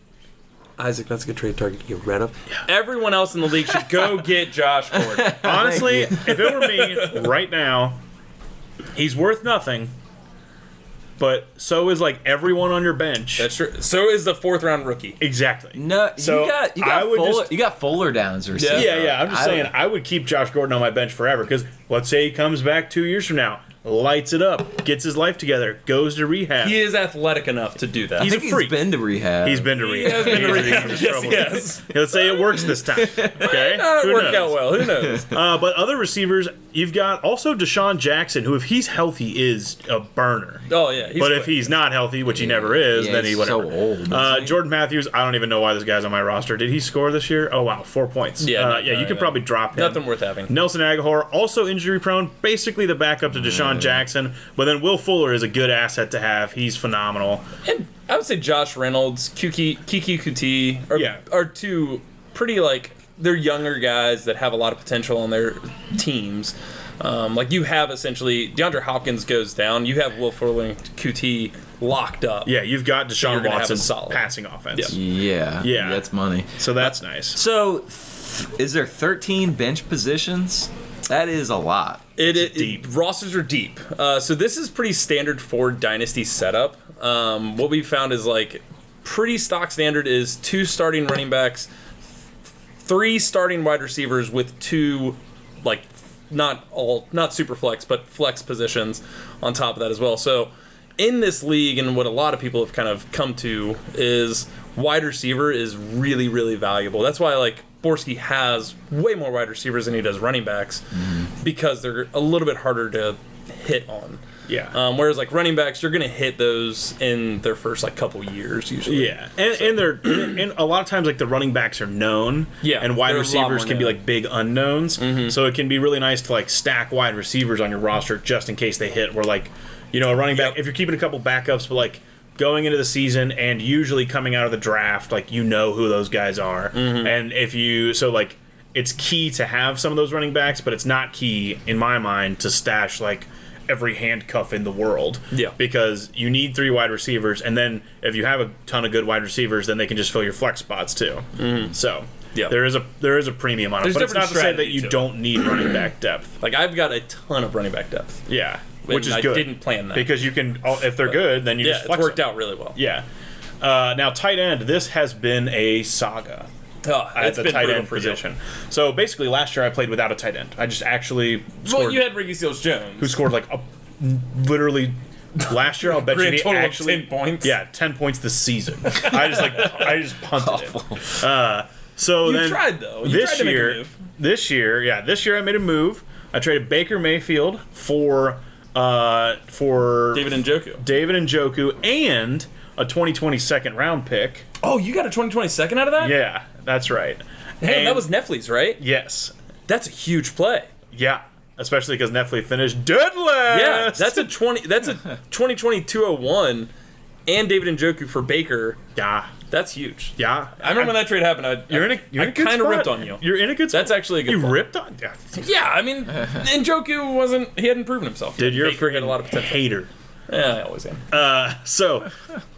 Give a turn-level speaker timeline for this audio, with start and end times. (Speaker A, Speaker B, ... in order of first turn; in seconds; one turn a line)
Speaker A: 0.8-7.1
Speaker B: 5.1-6.5
Speaker C: 5.3-8.0
Speaker C: 8.9-9.9
Speaker C: 11.2-13.5
Speaker A: 13.4-15.2
Speaker C: 15.2-17.6
Speaker B: 15.7-19.7
Speaker A: 18.6-18.9
Speaker C: 18.7-26.8
Speaker A: 26.6-28.3
Speaker B: 28.2-31.0
Speaker C: 28.2-40.6
Speaker A: 29.7-31.9
Speaker B: 32.8-33.3
Speaker A: 33.3-35.3
Speaker B: 34.9-35.2
Speaker A: 40.7-41.7
Speaker C: 41.2-57.4
Speaker B: 42.3-44.6
Speaker A: 48.4-50.5
Speaker B: 53.4-54.0
Speaker A: 57.6-72.5
Speaker C: 60.9-61.2
Speaker C: 72.5-75.0
Speaker A: 73.2-75.0
Speaker B: 74.9-82.0
Speaker C: 75.6-77.4
Speaker A: 82.2-91.7
Speaker C: 82.2-82.9
Speaker A: 92.8-120.2
Speaker C: 114.5-114.7
Speaker C: 118.8-156.3
Speaker A: 122.6-124.0
Speaker A: 125.0-125.4
Speaker A: 130.3-130.6
Speaker A: 136.7-137.1
Speaker A: 151.4-151.7
Speaker A: 153.8-155.2
Speaker A: 156.4-158.2
Speaker C: 158.3-163.0
Speaker A: 158.8-160.1
Speaker A: 161.0-162.8
Speaker C: 163.6-166.5
Speaker A: 166.8-168.2
Speaker C: 167.1-172.1
Speaker A: 171.6-173.2
Speaker C: 173.0-194.4
Speaker A: 175.4-177.5
Speaker B: 180.4-181.0
Speaker A: 182.2-183.9
Speaker A: 190.1-190.8
Speaker A: 194.6-196.2
Speaker C: 196.0-198.1
Speaker A: 197.6-198.8
Speaker C: 198.8-199.3
Speaker A: 199.7-200.7
Speaker C: 200.9-204.3
Speaker A: 203.5-206.7
Speaker A: 207.3-208.8
Speaker C: 208.9-209.3
Speaker A: 209.5-214.6
Speaker C: 210.2-211.1
Speaker C: 211.7-215.4
Speaker A: 215.3-219.6
Speaker C: 218.4-219.9
Speaker A: 220.3-221.1
Speaker C: 221.1-222.1